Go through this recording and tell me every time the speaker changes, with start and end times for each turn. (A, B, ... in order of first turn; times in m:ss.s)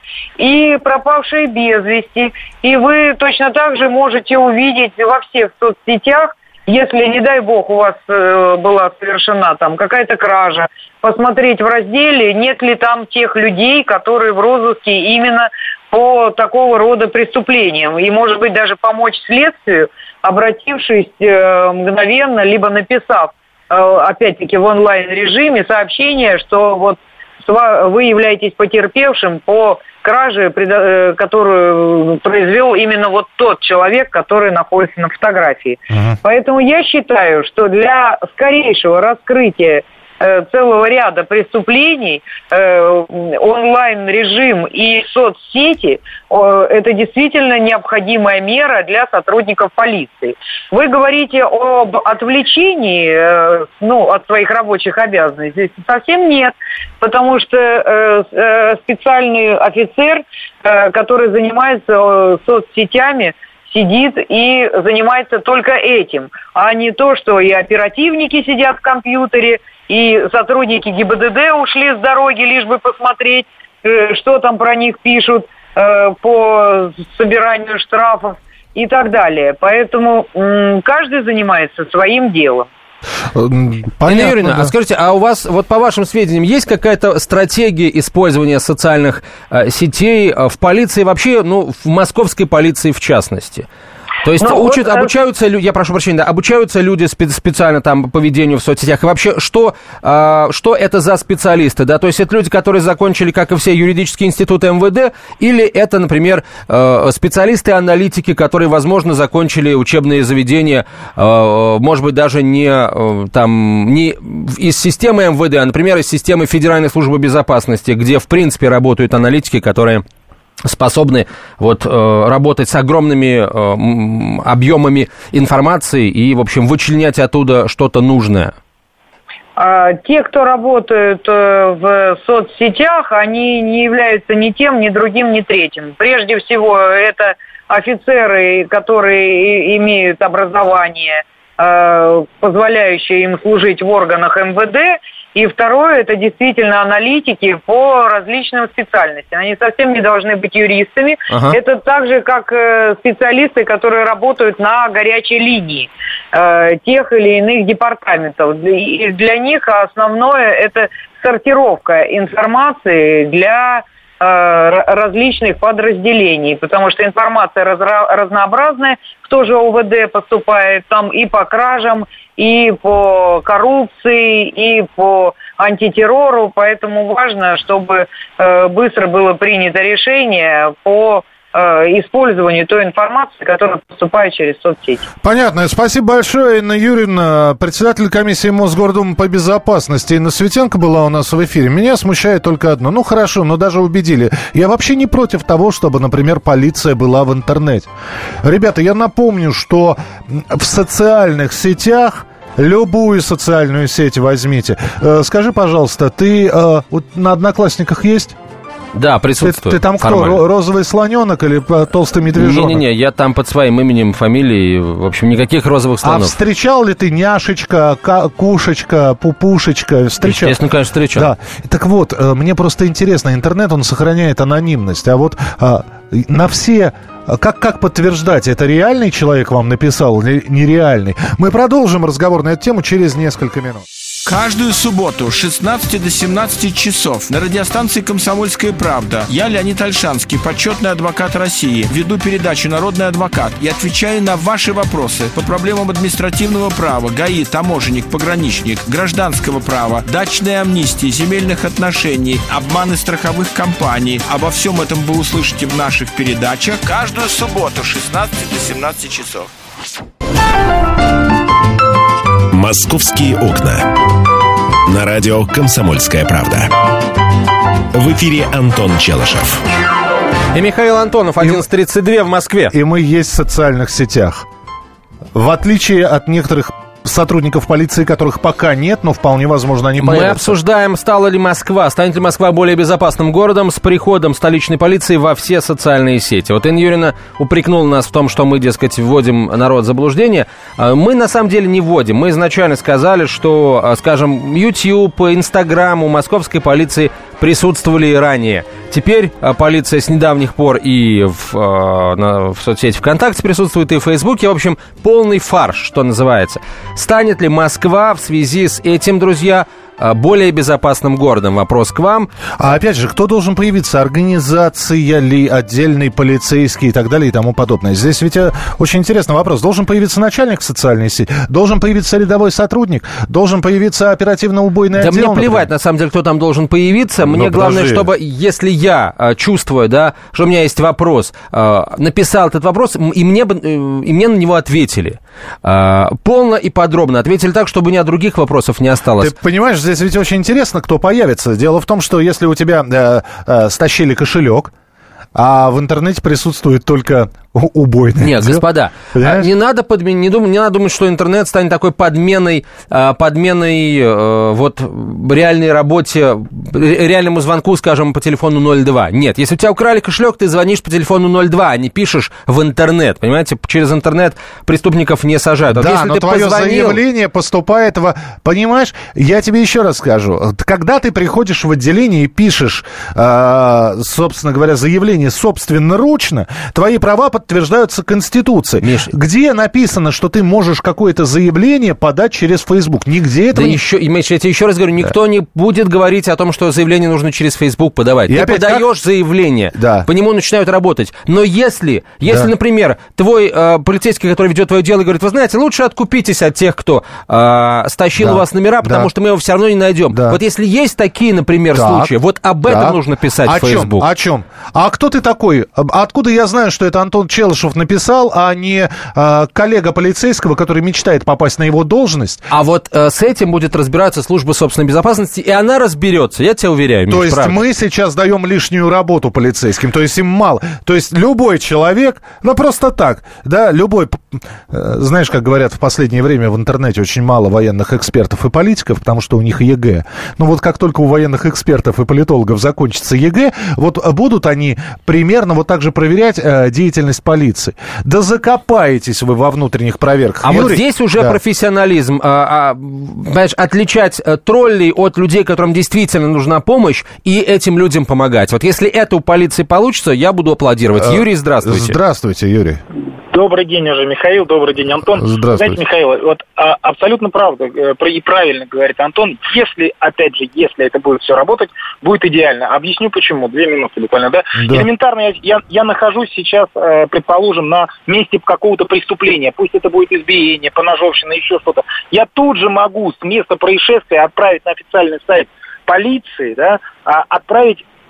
0:00.4-1:22.7 A
1:23.3-1:24.7 B
1:24.1-1:33.6 C
1:34.2-2:00.0 C
1:34.4-1:35.1 A
2:00.6-2:08.5 C
2:09.6-3:05.0 A
2:31.3-2:31.6 C
3:05.2-3:17.9 B
3:18.4-3:28.4 B
3:28.9-3:30.4 C
3:29.4-3:32.8 B
3:32.3-3:36.3 C
3:36.0-3:40.6 B
3:40.2-3:41.3 C
3:41.1-3:53.8 B
3:54.2-4:19.5 D
4:22.5-4:24.0 E
4:24.8-4:26.7 E
4:27.9-4:29.6 E
4:30.5-4:32.7 C
4:32.7-4:34.4 B
4:35.3-4:40.6 B
4:40.0-5:12.3 C
5:12.6-5:25.7 B
5:24.9-5:39.3 C
5:27.2-5:28.1 B
5:39.2-5:44.7 B
5:45.3-5:49.5 B
5:48.2-6:07.0 C
6:05.7-6:23.8 B
6:18.8-6:19.1 C
6:23.5-6:44.0 C
6:28.3-6:28.9 B
6:29.7-6:30.1 B
6:38.2-6:39.1 B
6:40.1-6:40.4 B
6:41.7-6:42.1 B
6:42.6-6:52.5 B
6:52.5-6:57.6 C
6:57.1-7:21.4 B
7:20.4-7:32.0 C
7:31.0-7:32.8 B
7:33.3-7:57.8 F
7:35.2-7:35.8 B
7:44.6-7:44.8 B